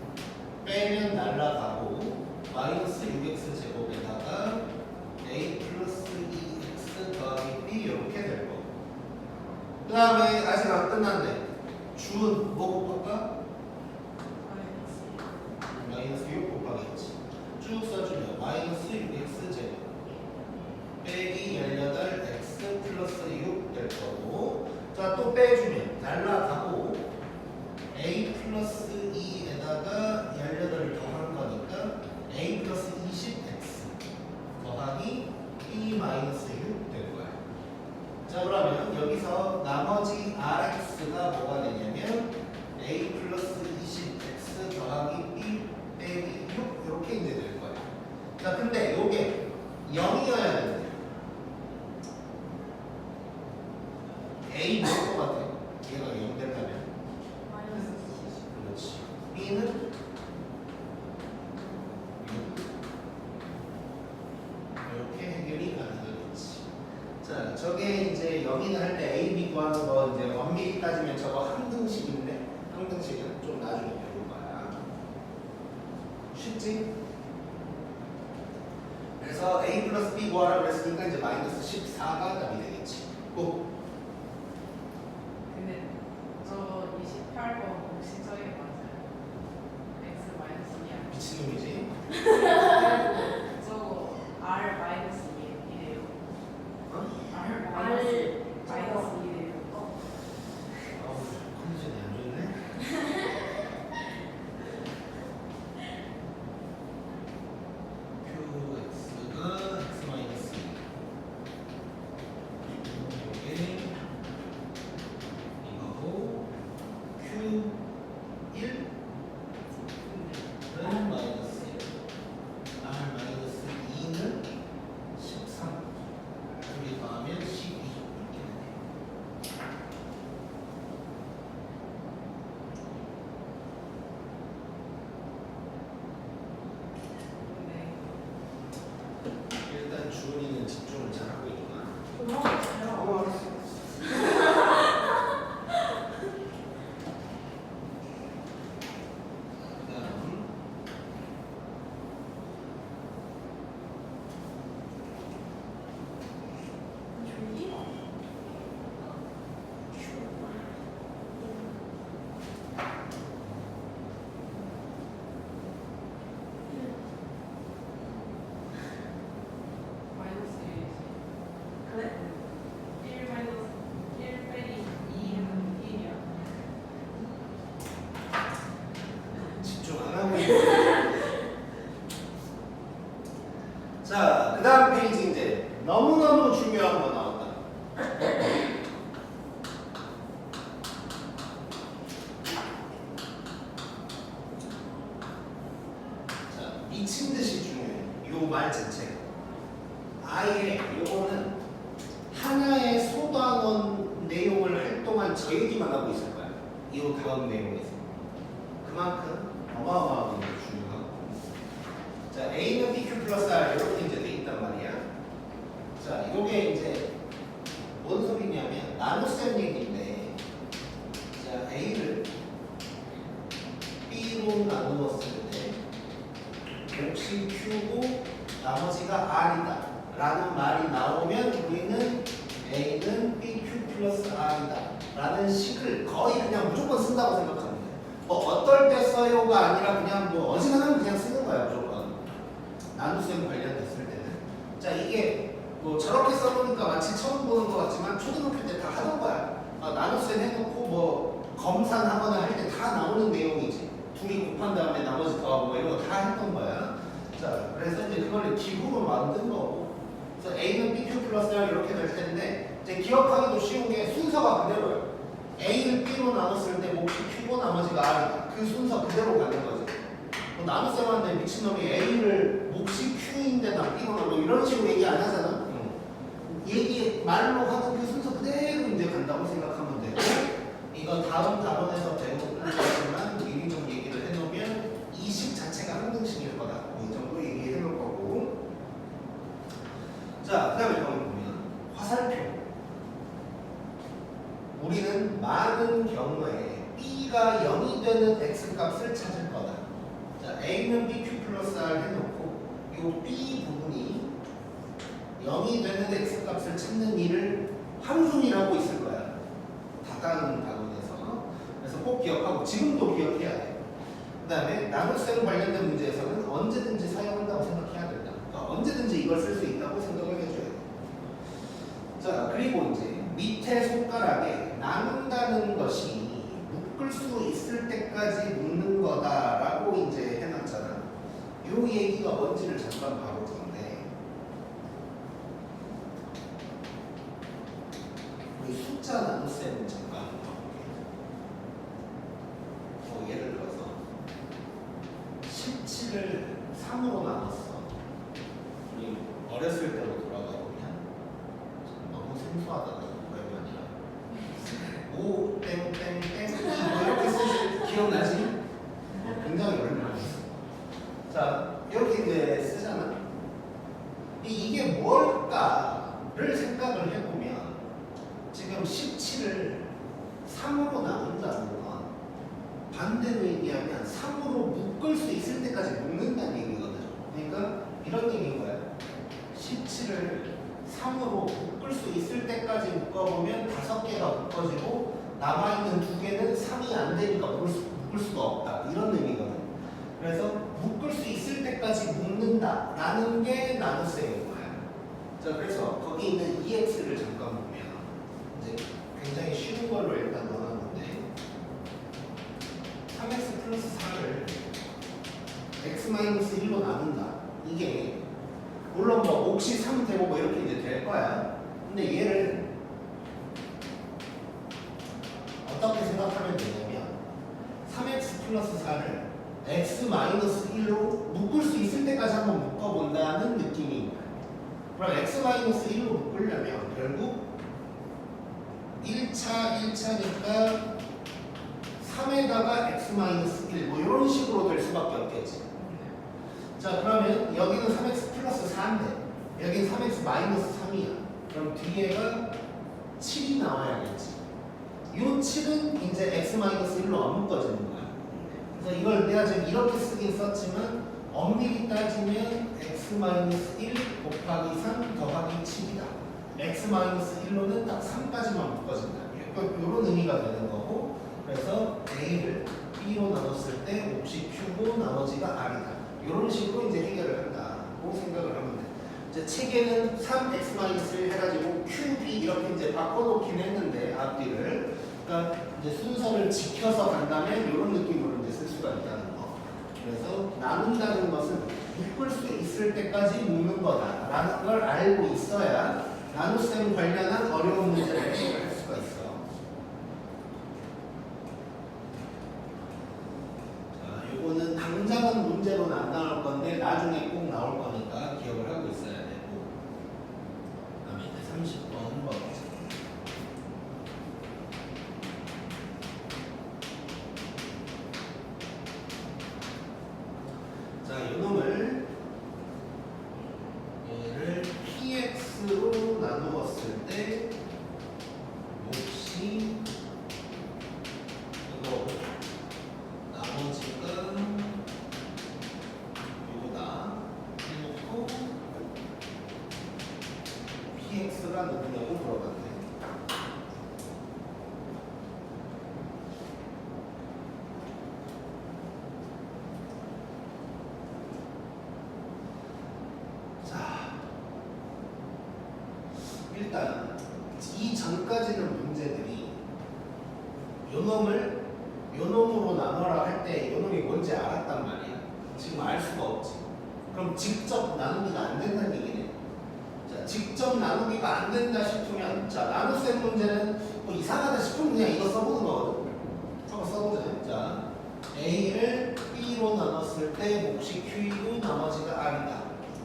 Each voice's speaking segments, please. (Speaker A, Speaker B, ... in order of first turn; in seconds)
Speaker A: 0.6-4.6, 5.2-8.7, 9.9-11.4, 12.0-13.3, 15.7-20.0, 21.0-27.1, 27.9-34.0, 34.6-37.4, 38.3-47.8, 48.4-51.0, 54.5-56.9, 58.5-59.8, 62.2-62.7, 64.9-66.7, 67.2-74.8, 76.3-76.9, 79.2-83.6, 91.1-92.0, 92.5-93.2, 96.9-97.1, 101.0-102.6, 108.2-110.8, 112.7-113.9, 115.6-116.5, 117.2-117.8, 118.5-118.8, 120.7-121.8, 122.8-124.4, 125.2-125.8, 126.6-128.8, 139.6-141.9, 142.9-144.7, 149.7-150.5, 179.4-181.1, 184.0-187.6, 196.5-199.2, 200.2-201.6, 202.3-208.0, 208.8-211.4, 212.3-215.0, 216.0-217.1, 218.0-220.4, 221.4-222.3, 224.1-225.8, 226.9-242.2, 242.9-270.0, 270.6-288.6, 290.4-292.6, 294.8-299.9, 300.4-304.3, 305.4-309.3, 310.0-313.8, 314.4-320.9, 322.2-331.1, 331.6-334.1, 338.6-340.9, 343.0-344.0, 345.4-347.9, 348.9-351.0, 351.9-353.9, 355.1-358.6, 359.2-360.5, 361.3-363.2, 364.4-367.8, 368.5-369.9, 370.4-372.1, 372.9-378.8, 379.5-394.8, 395.4-401.3, 403.1-404.6, 405.8-408.2, 408.9-412.7, 415.6-417.2, 417.9-424.3, 425.0-427.4, 429.0-430.9, 432.0-435.6, 436.8-442.5, 443.2-444.4, 445.1-448.2, 448.7-489.4, 493.9-499.7, 501.0-502.7, 511.0-512.0, 514.0-517.5, 518.8-519.8, 521.7-522.4, 523.3-524.8, 526.4-528.8, 530.9-532.9, 543.6-544.2, 546.5-549.6, 550.9-559.4, 560.1-566.0, 566.7-572.7
Speaker B: 14.5-15.0, 57.7-58.3, 85.5-89.0, 89.9-91.3, 92.2-96.1, 97.3-99.8, 119.9-121.1, 137.4-138.2, 170.1-171.2, 172.1-172.4, 173.0-176.3, 435.8-436.1, 448.3-448.6
Speaker C: 57.5-58.4, 97.7-100.0, 142.2-143.3, 144.1-144.8, 157.1-159.2, 159.9-161.9, 166.7-167.1, 171.8-172.2